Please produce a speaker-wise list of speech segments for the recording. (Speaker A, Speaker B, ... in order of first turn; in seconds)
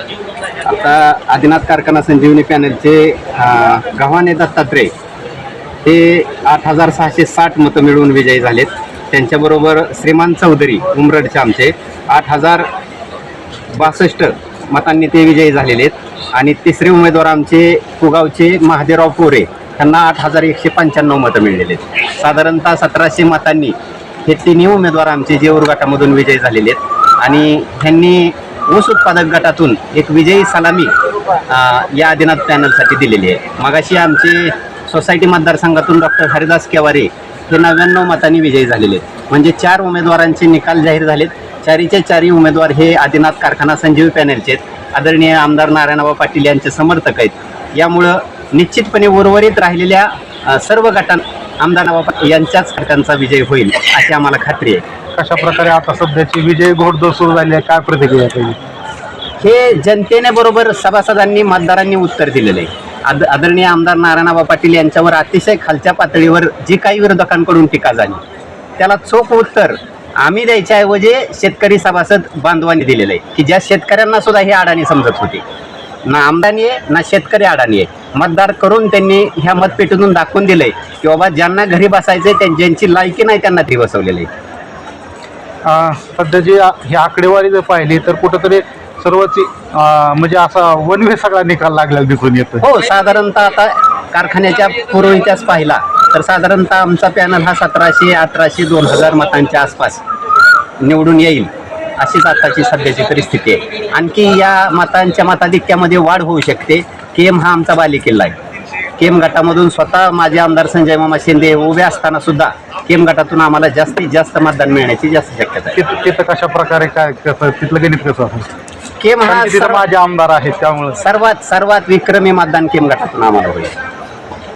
Speaker A: 0.7-4.9, 5.8-12.7, 13.7-30.9, 31.5-54.8, 59.4-68.2, 68.8-75.4, 76.1-84.3, 92.6-100.0, 100.8-108.4, 109.0-115.8, 119.0-119.8, 121.0-123.7
Speaker B: 55.2-58.6, 85.7-92.7, 115.8-118.5, 119.2-121.0